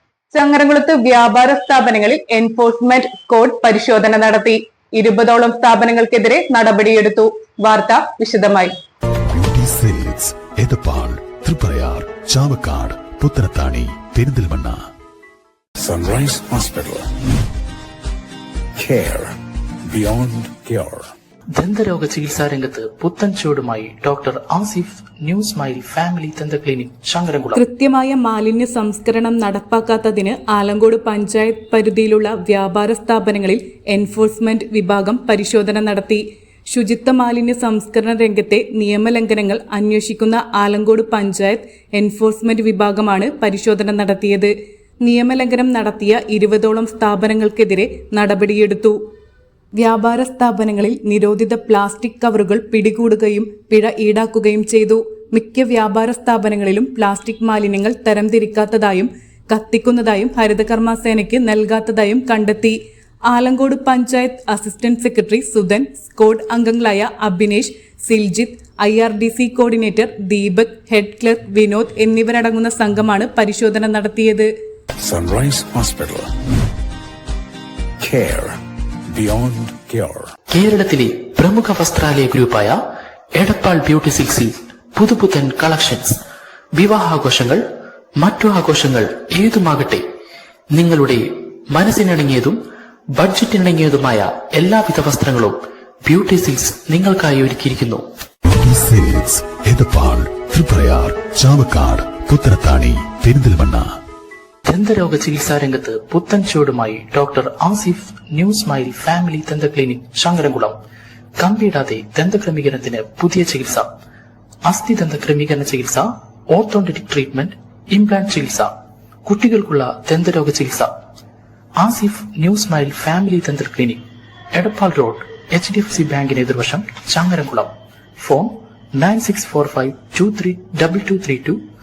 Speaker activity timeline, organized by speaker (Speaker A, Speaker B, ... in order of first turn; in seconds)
Speaker A: 0.3-8.8
Speaker B: 9.3-14.8, 98.5-103.9
Speaker C: 15.8-17.1, 18.8-19.3, 19.9-21.1, 75.0-76.3, 78.0-78.6, 79.1-80.3
Speaker D: 21.5-27.6, 80.5-82.8, 83.4-86.2, 86.8-87.6, 88.2-90.0, 90.7-92.6, 93.1-98.0, 104.7-110.8, 111.4-113.9, 114.7-118.7, 119.2-120.9, 121.8-124.0, 124.5-131.6
Speaker E: 27.5-49.0, 49.8-62.8, 63.3-74.5